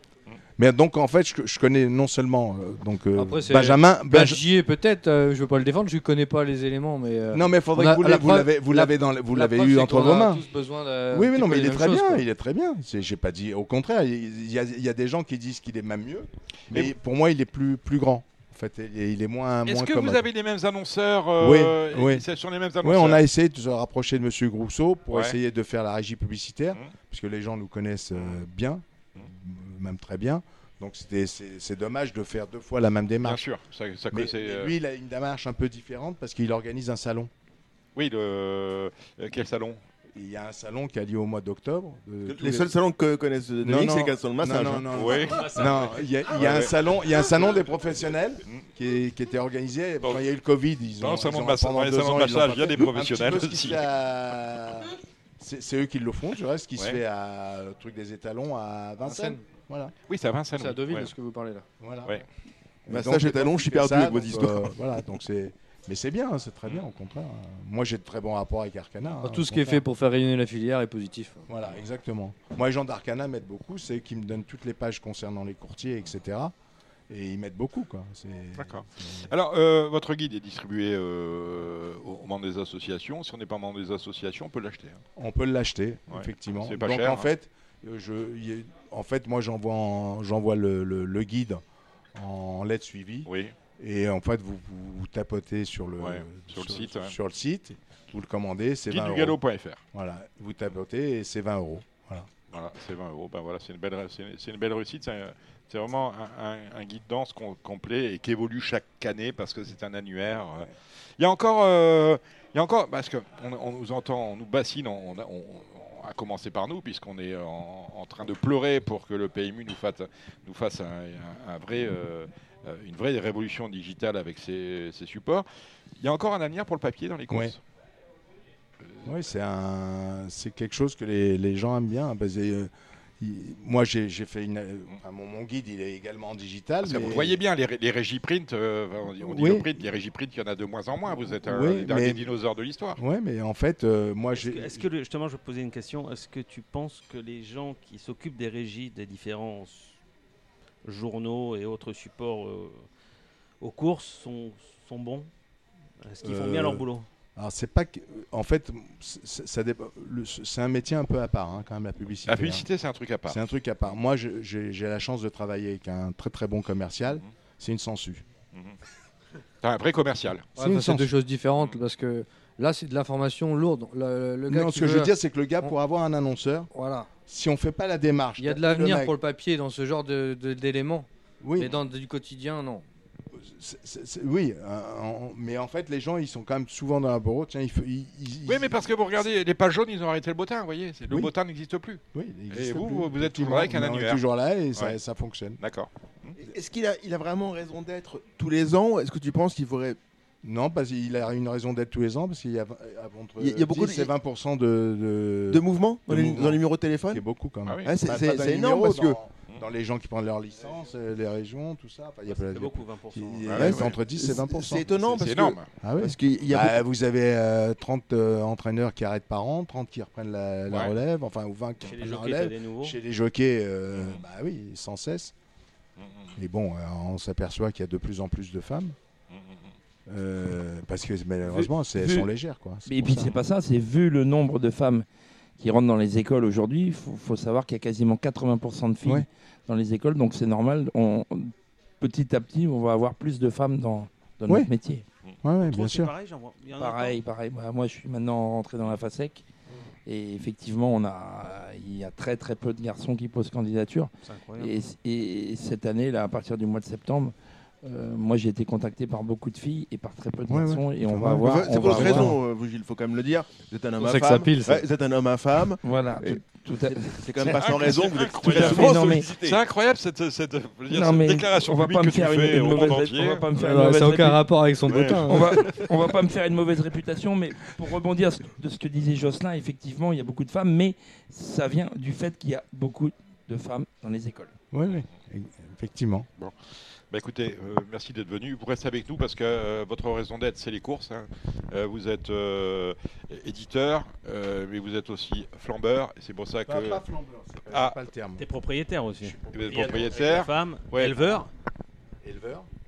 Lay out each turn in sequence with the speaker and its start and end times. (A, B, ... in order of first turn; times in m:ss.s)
0:00.6-0:04.4 A
0:03.2-0:12.2 B
0:07.3-0:10.4 A
0:11.1-0:20.2 A
0:19.7-0:23.2 C
0:21.4-0:22.2 A
0:22.8-0:33.4 A
0:25.1-0:25.4 C
0:28.1-0:28.4 C
0:33.2-0:34.7 C
0:34.1-0:37.3 A
0:38.0-0:39.8 C
0:40.1-0:42.7 A
0:42.2-0:44.9 D
0:43.6-0:59.9 A
0:44.9-0:46.7 C
0:45.3-0:46.1 E
0:51.0-0:53.9 C
0:59.0-0:59.4 B
1:00.1-1:01.1 C
1:00.6-1:01.6 B
1:01.8-1:02.2 A
1:02.9-1:09.8 A
1:02.9-1:04.7 D
1:09.2-1:11.5 B
1:11.5-1:16.5 A
1:17.1-1:19.3 A
1:18.6-1:25.0 C
1:25.2-1:31.6 A
1:26.1-1:27.3 C
1:32.1-1:39.4 A
1:33.2-1:33.5 C
1:36.0-1:37.2 C
1:38.9-1:39.8 C
1:39.9-1:42.3 A
1:42.5-2:05.4 C
2:06.0-2:07.6 C
2:07.3-2:07.5 A
2:09.0-2:17.4 A
2:16.8-2:23.0 C
2:19.2-2:19.7 A
2:21.4-2:22.2 A
2:23.0-2:24.8 A
2:24.3-2:29.9 E
2:30.8-2:32.8 E
2:33.6-2:35.3 E
2:36.0-2:37.1 E
2:36.2-2:36.8 A
2:37.4-2:42.6 A
2:42.3-2:43.4 C
2:43.3-2:48.2 A
2:49.6-2:50.5 C
2:50.6-2:51.1 A
2:50.6-2:55.1 B
2:54.5-2:56.7 A
2:56.7-2:57.1 B
2:57.3-2:59.1 A
2:58.4-3:02.8 B
3:01.4-3:01.7 A
3:03.3-3:08.8 A
3:08.4-3:14.2 C
3:12.1-3:15.6 A
3:15.6-3:16.4 C
3:16.4-3:20.0 D
3:20.4-3:34.9 A
3:23.4-3:24.1 D
3:25.5-3:27.2 D
3:27.8-3:29.2 D
3:32.3-3:33.6 E
3:33.4-3:34.0 C
3:33.5-3:36.8 D
3:34.9-3:35.7 C
3:35.8-3:45.3 A
3:41.8-3:43.0 E
3:43.9-3:44.2 C
3:46.0-3:46.3 C
3:46.4-3:49.0 A
3:49.3-3:49.7 C
3:50.1-3:53.3 A
3:51.4-3:52.3 F
3:52.8-3:55.0 F
3:55.6-4:05.0 F
4:05.4-4:06.1 A
4:05.6-4:07.2 E
4:06.8-4:09.4 F
4:10.1-4:22.4 F
4:14.2-4:14.7 E
4:20.5-4:22.4 A
4:21.4-4:29.6 D
4:24.0-4:24.8 B
4:25.8-4:27.2 F
4:27.4-4:33.5 C
4:28.5-4:29.3 F
4:30.9-4:34.4 F
4:33.5-4:35.7 B
4:34.9-4:35.2 D
4:34.9-4:35.8 C
4:35.3-4:44.5 F
4:44.7-4:46.3 A
4:47.1-4:57.0 C
4:56.7-4:58.4 A
4:57.7-4:58.0 C
4:58.4-5:01.5 E
4:59.2-5:00.3 A
4:59.5-5:01.3 C
5:02.2-5:02.7 A